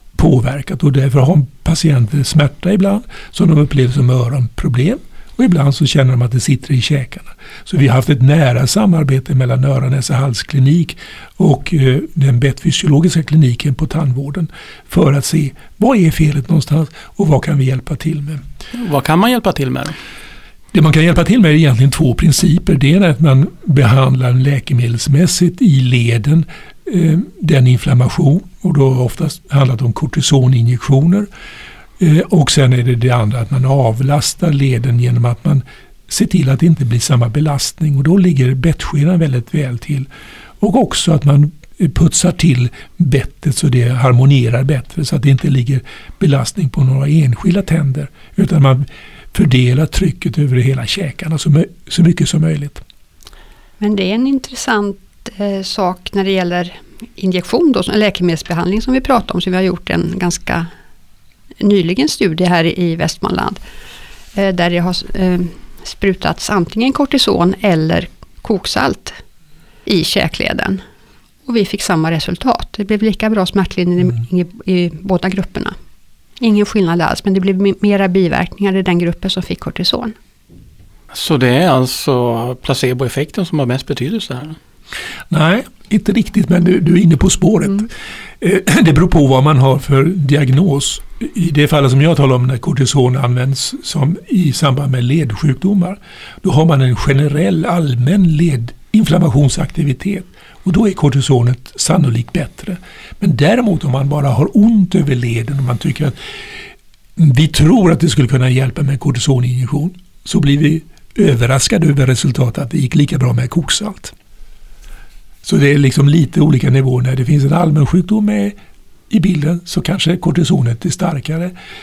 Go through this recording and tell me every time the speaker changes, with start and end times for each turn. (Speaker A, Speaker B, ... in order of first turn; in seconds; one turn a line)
Speaker A: 0.1-18.4
Speaker B: 18.7-19.9
Speaker A: 20.7-31.3
Speaker A: 32.0-40.1
Speaker A: 40.6-52.8
Speaker C: 53.8-60.7
Speaker C: 61.6-63.6
Speaker C: 64.3-69.2
Speaker C: 69.8-70.8
Speaker C: 71.5-75.7
Speaker C: 76.4-80.1
Speaker B: 81.1-84.6
Speaker A: 85.3-87.9
Speaker A: 88.4-106.6
Speaker A: 107.2-114.1
Speaker A: 115.4-118.5
Speaker A: 119.1-121.5